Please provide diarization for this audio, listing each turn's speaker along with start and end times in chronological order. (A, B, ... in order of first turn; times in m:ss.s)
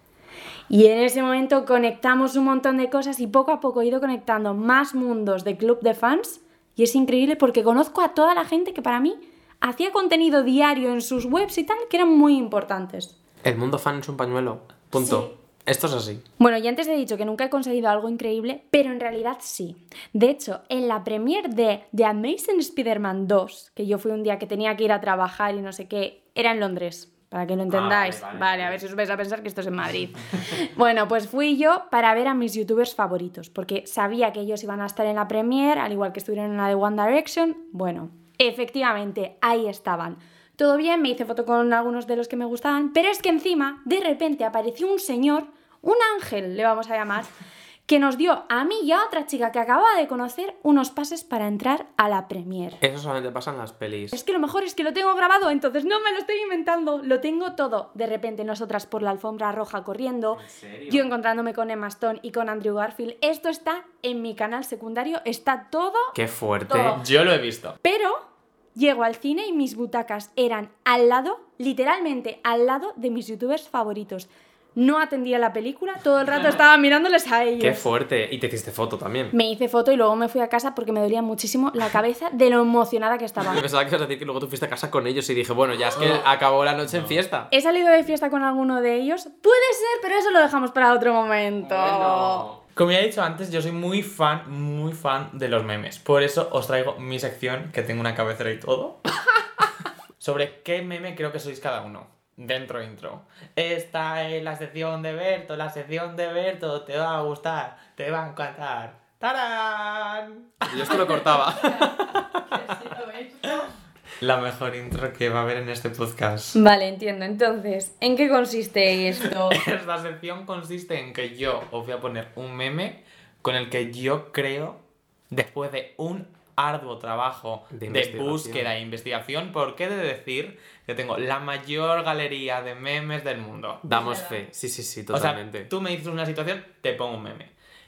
0:00.7-0:13.1 A
0:13.4-0:16.2 B
0:15.0-0:15.3 A
0:16.4-0:47.3 A
0:27.7-0:28.8 B
0:47.9-0:52.8 A
0:52.8-0:54.2 B
0:54.1-1:06.2 A
1:00.3-1:01.1 B
1:06.1-1:07.0 B
1:06.7-1:07.0 A
1:07.0-1:07.8 C
1:07.8-1:17.8 A
1:17.6-1:19.3 B
1:19.3-1:23.6 A
1:23.4-1:27.5 B
1:26.0-1:26.2 C
1:26.8-1:27.2 C
1:27.5-1:32.5 A
1:31.6-1:32.6 B
1:32.7-1:39.0 C
1:40.2-1:52.2 C
1:50.6-1:51.9 B
1:51.1-1:53.7 A
1:54.2-1:56.6 C
1:56.5-1:59.6 A
1:59.4-2:13.8 C
2:07.7-2:08.7 B
2:13.8-2:15.7 B
2:13.9-2:14.4 A
2:15.1-2:17.5 C